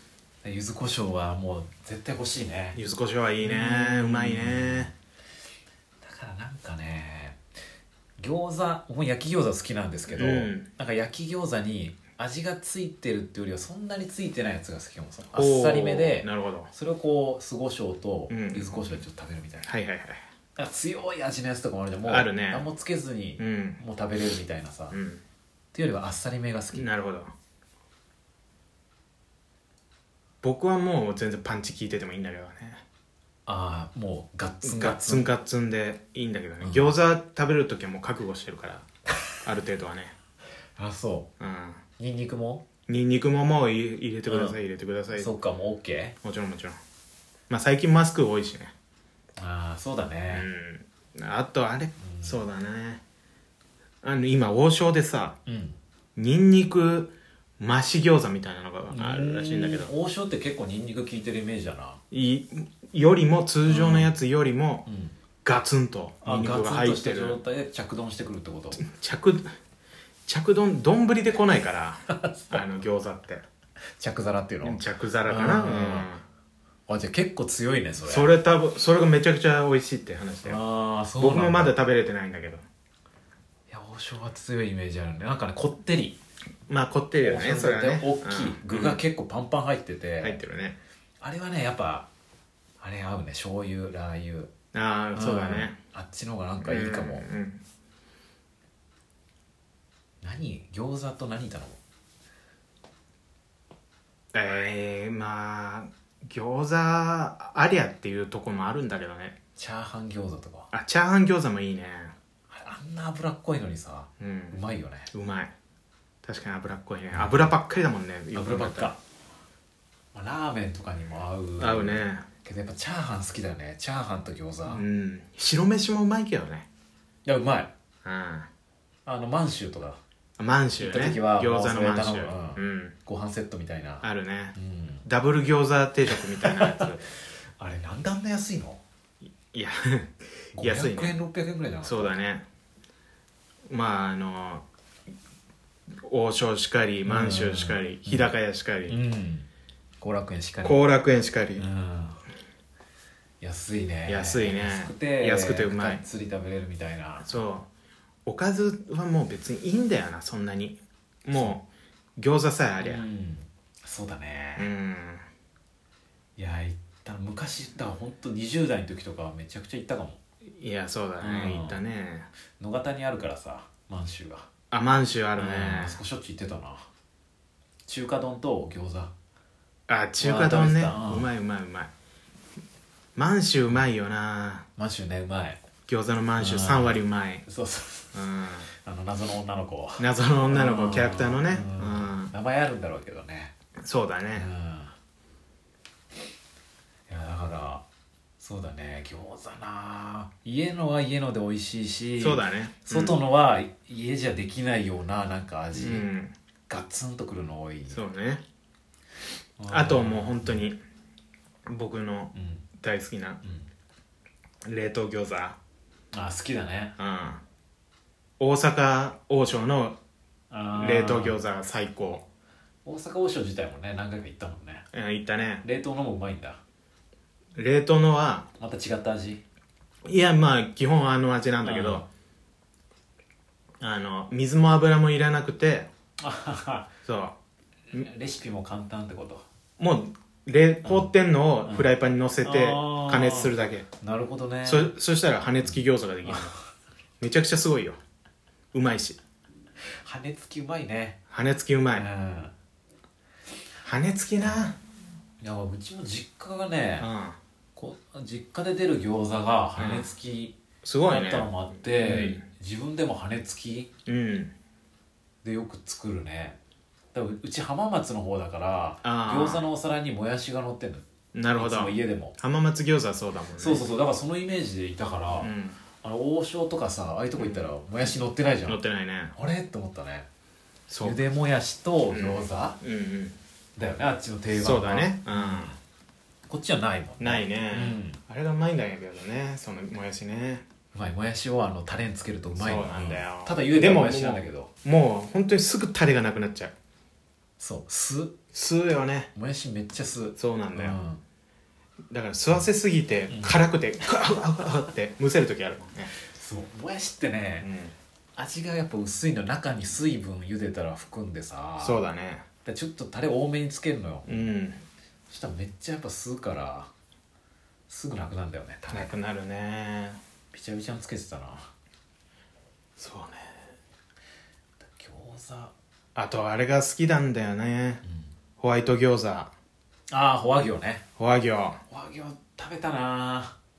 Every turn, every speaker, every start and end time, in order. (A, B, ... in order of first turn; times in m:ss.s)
0:00.4-0:02.8 A
0:02.7-0:04.9 B
0:03.4-0:04.9 A
0:06.0-0:07.4 A
0:08.2-0:19.7 A
0:10.1-0:10.6 B
0:15.3-0:16.7 B
0:18.3-0:18.9 B
0:19.6-0:20.2 B
0:20.6-0:25.0 A
0:22.0-0:22.6 B
0:23.4-0:23.8 B
0:24.9-0:25.2 B
0:25.7-0:26.8 A
0:26.7-0:27.3 B
0:30.4-0:32.8 B
0:33.4-0:35.3 A
0:34.6-0:38.8 B
0:36.6-0:37.0 A
0:39.4-0:40.1 B
0:40.8-0:41.3 A
0:41.4-0:41.8 B
0:42.0-0:42.6 A
0:42.9-0:45.3 B
0:44.3-0:44.6 A
0:45.1-0:46.2 A
0:46.2-0:46.8 B
0:47.5-0:48.7 B
0:49.4-0:50.5 A
0:50.3-0:53.0 B
0:52.0-0:52.4 A
0:54.0-0:55.4 B
0:55.4-0:55.8 A
0:56.2-0:59.9 B
0:58.9-1:02.0 A
1:02.1-1:04.8 B
1:03.7-1:04.1 A
1:04.8-1:05.1 A
1:05.4-1:07.4 B
1:06.2-1:08.8 A
1:08.7-1:09.6 B
1:10.3-1:13.4 B
1:12.1-1:12.6 A
1:14.0-1:16.1 A
1:14.6-1:16.2 B
1:16.9-1:18.3 A
1:18.0-1:20.6 B
1:20.4-1:21.8 A
1:21.2-1:22.6 B
1:23.7-1:26.2 A
1:26.7-1:29.0 B
1:27.2-1:30.4 A
1:30.2-1:30.8 B
1:31.2-1:32.1 A
1:32.8-1:34.5 A
1:34.7-1:35.8 B
1:35.1-1:37.3 A
1:36.6-1:37.6 B
1:40.2-1:41.8 A
1:44.3-1:49.4 B
1:49.6-1:50.7 A
1:50.7-1:52.1 B
1:52.5-1:55.1 A
1:54.2-1:54.6 B
1:55.1-1:55.5 B
1:56.2-1:58.9 B
1:57.1-1:57.5 A
1:58.3-1:59.0 A
2:00.1-2:04.8 A
2:01.6-2:02.2 B
2:04.7-2:06.7 B
2:07.2-2:07.7 A
2:08.0-2:08.5 B
2:09.0-2:10.0 A
2:10.4-2:12.9 B
2:10.8-2:15.0 A
2:14.0-2:17.0 B
2:16.1-2:18.8 A
2:19.4-2:21.1 B
2:20.5-2:22.2 A
2:21.8-2:22.4 B
2:23.7-2:24.6 B
2:26.0-2:29.0 B
2:27.0-2:28.3 A
2:28.9-2:29.5 A
2:30.0-2:30.8 A
2:30.6-2:31.6 B
2:31.6-2:32.2 A
2:33.4-2:37.4 A
2:34.1-2:36.0 B
2:37.2-2:37.7 B
2:38.2-2:41.6 B
2:41.3-2:41.5 A
2:42.2-2:43.0 B
2:42.8-2:44.7 A
2:44.6-2:45.2 B
2:46.4-2:50.2 A
2:50.4-2:52.3 B
2:51.2-2:51.8 A
2:52.6-2:54.5 A
2:54.7-2:56.0 B
2:55.3-2:56.9 A
2:57.8-2:59.1 A
2:59.9-3:01.9 B
3:00.2-3:01.3 A
3:03.2-3:04.6 B
3:04.8-3:05.6 A
3:05.9-3:07.4 B
3:06.4-3:08.2 A
3:08.1-3:08.7 B
3:08.8-3:13.5 A
3:10.0-3:12.3 B
3:13.8-3:14.5 B
3:14.3-3:14.9 A
3:17.1-3:17.8 A
3:18.4-3:26.1 A
3:22.2-3:23.2 B
3:25.7-3:26.3 B
3:26.7-3:28.0 A
3:27.9-3:28.4 B
3:29.6-3:30.6 A
3:29.7-3:30.8 B
3:31.7-3:33.4 B
3:32.3-3:32.6 A
3:33.4-3:33.7 A
3:34.6-3:35.6 B
3:36.1-3:36.9 A
3:37.0-3:37.4 B
3:38.4-3:40.0 B
3:40.5-3:41.4 A
3:40.7-3:42.2 B
3:42.8-3:44.8 A
3:44.9-3:45.6 B
3:45.6-3:46.6 A
3:47.6-3:48.5 B
3:48.6-3:49.4 A
3:50.0-3:52.0 B
3:51.6-3:52.1 A
3:53.8-3:55.9 B
3:56.2-3:56.9 A
3:57.0-3:57.3 B
3:57.9-3:59.4 A
3:59.8-4:03.9 B
4:00.8-4:01.1 A
4:01.6-4:01.9 A
4:02.4-4:04.9 A
4:04.6-4:06.5 B
4:05.6-4:06.6 A
4:07.2-4:08.0 B
4:08.7-4:09.2 B
4:10.0-4:11.2 A
4:11.3-4:12.1 B
4:11.9-4:12.5 A
4:13.8-4:14.8 B
4:15.4-4:17.1 A
4:17.0-4:17.4 B
4:17.8-4:23.9 A
4:19.8-4:20.1 B
4:20.8-4:22.4 B
4:24.0-4:24.5 B
4:25.4-4:26.6 A
4:27.1-4:32.4 A
4:29.0-4:29.6 B
4:31.3-4:33.9 B
4:33.6-4:38.8 A
4:35.4-4:35.8 B
4:37.4-4:37.7 B
4:38.7-4:39.3 B
4:39.3-4:40.3 A
4:40.9-4:41.2 B
4:41.0-4:42.8 A
4:42.1-4:43.4 B
4:43.8-4:45.8 A
4:44.5-4:45.7 B
4:46.5-4:48.2 A
4:47.2-4:50.6 B
4:50.9-4:54.7 A
4:52.6-4:56.7 B
4:57.6-4:58.4 A
4:58.5-4:59.3 B
4:59.3-5:01.2 A
5:00.4-5:01.0 B
5:02.1-5:06.1 B
5:03.3-5:03.6 A
5:06.3-5:07.7 A
5:07.6-5:07.9 B
5:08.4-5:12.0 A
5:11.8-5:12.4 B
5:12.6-5:14.5 A
5:14.3-5:14.8 B
5:15.3-5:16.9 A
5:17.9-5:19.1 A
5:18.9-5:20.2 B
5:20.5-5:21.7 A
5:23.0-5:23.5 B
5:24.8-5:25.7 A
5:26.1-5:28.0 B
5:28.0-5:28.3 A
5:28.6-5:29.5 B
5:30.1-5:31.0 A
5:31.2-5:31.8 B
5:31.9-5:33.5 A